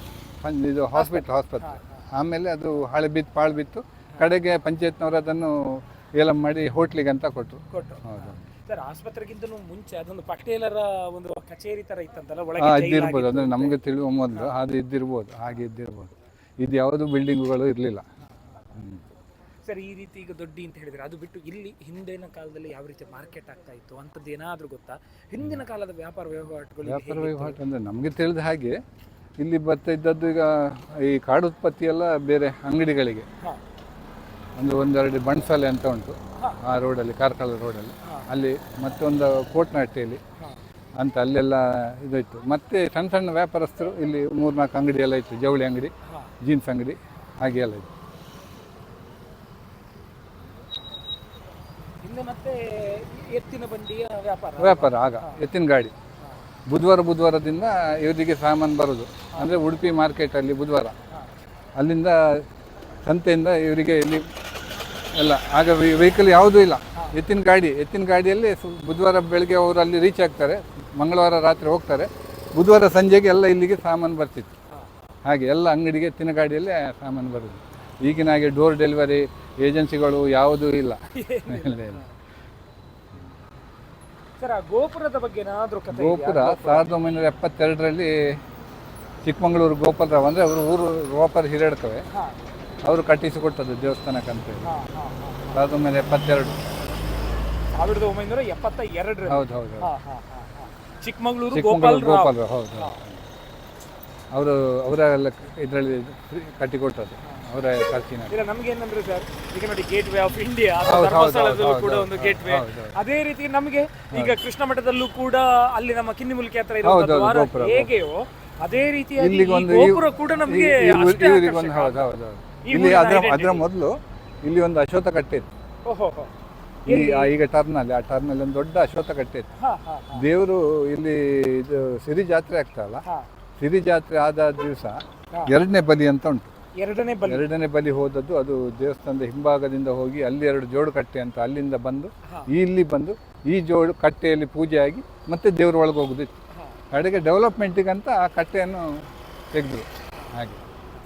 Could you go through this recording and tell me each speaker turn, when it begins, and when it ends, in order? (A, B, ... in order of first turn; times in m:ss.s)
0:00.4-0:08.4 A
0:00.9-0:02.0 B
0:07.7-0:13.8 B
0:12.6-0:18.0 A
0:18.7-0:19.0 A
0:19.6-0:27.6 B
0:26.8-0:28.8 A
0:29.4-0:33.2 A
0:34.6-0:40.2 A
0:41.0-0:47.9 A
0:46.0-0:46.3 B
0:52.0-0:55.4 B
0:54.6-0:55.9 A
0:56.7-1:00.9 A
1:01.8-1:02.4 A
1:03.0-1:04.2 A
1:05.1-1:14.5 A
1:15.2-1:22.0 A
1:21.1-1:22.0 B
1:24.4-1:26.9 B
1:25.9-1:28.1 A
1:29.2-1:32.0 A
1:32.8-1:34.7 A
1:34.6-1:35.6 B
1:35.5-1:36.6 A
1:37.8-1:43.0 B
1:39.2-1:39.9 A
1:41.5-1:43.2 A
1:44.3-1:48.3 A
1:48.3-2:02.0 B
1:50.8-1:53.0 A
1:54.1-1:54.4 A
1:56.8-1:57.9 A
1:59.2-2:05.5 A
2:02.6-2:03.6 B
2:05.8-2:06.3 B
2:06.8-2:07.3 B
2:06.9-2:09.5 A
2:09.6-2:10.2 B
2:10.1-2:13.0 A
2:13.6-2:16.5 A
2:16.8-2:17.4 B
2:17.2-2:26.3 A
2:26.9-2:28.9 A
2:29.5-2:30.6 A